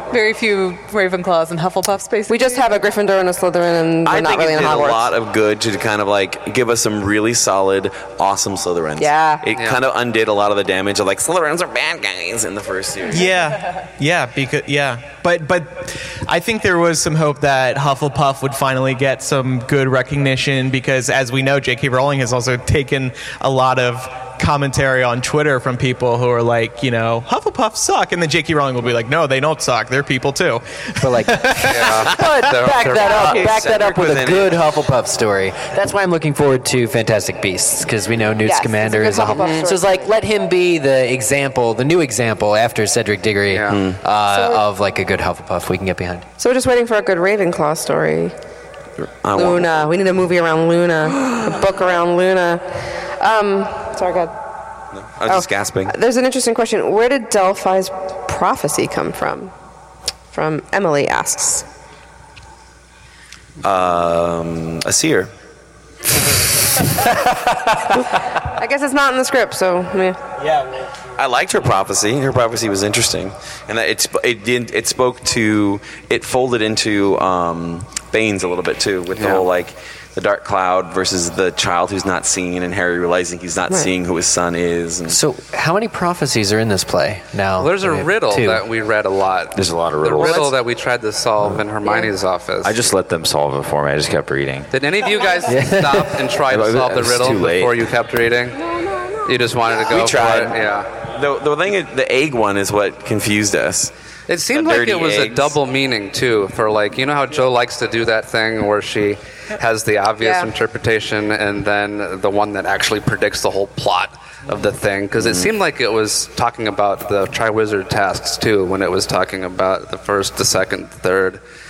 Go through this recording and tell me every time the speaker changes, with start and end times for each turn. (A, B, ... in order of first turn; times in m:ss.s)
0:00.1-0:02.8 A
0:02.3-0:05.1 B
0:04.0-0:13.3 C
0:09.0-0:09.4 B
0:09.6-0:09.8 D
0:13.1-0:32.1 E
0:31.0-0:46.2 F
0:31.6-0:33.5 D
0:33.0-0:34.7 C
0:33.0-0:33.4 B
0:38.4-0:40.1 B
0:43.5-0:43.8 D
0:43.7-0:44.0 C
0:44.3-0:44.6 B
0:46.4-0:48.3 B
0:49.0-0:49.7 C
0:49.3-0:52.6 B
0:53.2-0:54.3 B
0:55.1-0:55.9 C
0:55.3-0:59.5 B
1:00.3-1:01.6 B
1:03.6-1:05.3 C
1:08.4-1:10.2 B
1:11.2-1:25.2 C
1:19.2-1:19.4 D
1:25.1-1:28.6 F
1:27.6-1:32.8 D
1:29.5-1:30.5 G
1:31.8-1:32.1 B
1:32.6-1:34.7 G
1:34.7-1:38.6 D
1:35.4-1:36.2 F
1:36.4-1:37.9 G
1:38.8-1:39.1 B
1:39.2-1:40.9 D
1:39.9-1:43.9 C
1:44.3-2:01.4 D
1:44.5-1:45.6 C
1:50.2-1:50.5 B
1:55.2-1:55.5 C